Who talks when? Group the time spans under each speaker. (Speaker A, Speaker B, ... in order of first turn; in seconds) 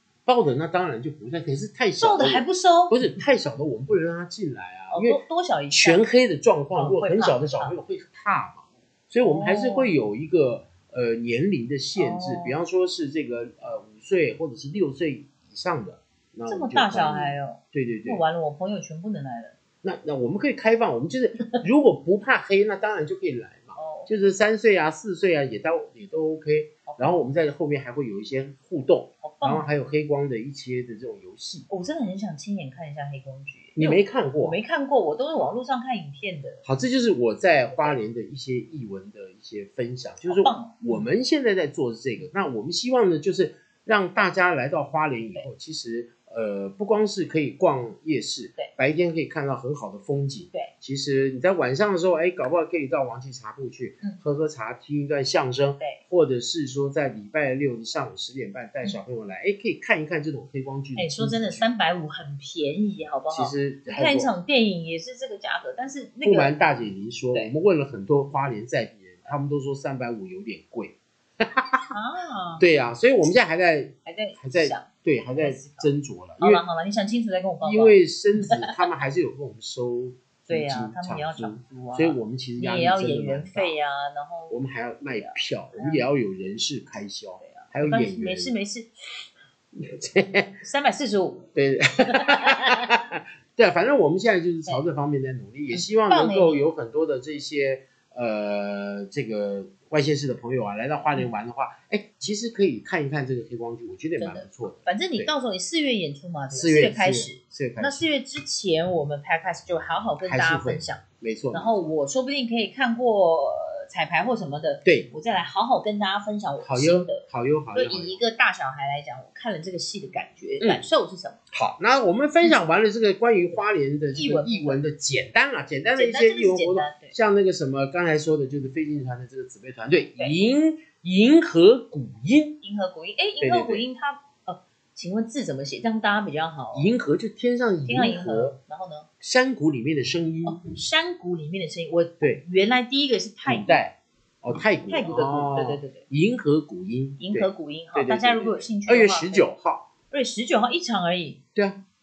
Speaker A: 0.3-18.2, 19.8-31.7, 33.8-34.6, 36.6-61.6, 63.3-64.3, 66.2-71.9, 72.6-76.6, 77.6-83.8, 84.5-88.5, 89.7-90.6, 91.5-105.3, 106.5-108.1, 110.2-111.9, 114.8-115.1, 116.6-118.2, 121.5-132.6, 133.4-133.8, 136.7-138.6, 139.2-140.6, 143.4-149.9
Speaker B: 2.0-3.0, 4.9-6.0, 6.8-7.8, 9.2-9.9, 11.9-12.6, 16.5-19.6, 23.8-24.2, 26.9-27.1, 29.2-29.7, 31.7-36.6, 40.3-41.1, 61.0-66.6, 71.9-72.6, 74.0-75.9, 76.4-78.8, 80.5-84.6, 85.1-86.0, 87.4-88.9, 90.6-91.5, 92.0-93.0, 95.7-96.7, 104.2-117.2, 117.7-121.4, 124.1-124.8, 125.9-127.2, 132.6-136.9, 137.9-139.1, 140.4-143.8, 144.9-146.1, 147.2-149.5, 150.1-151.4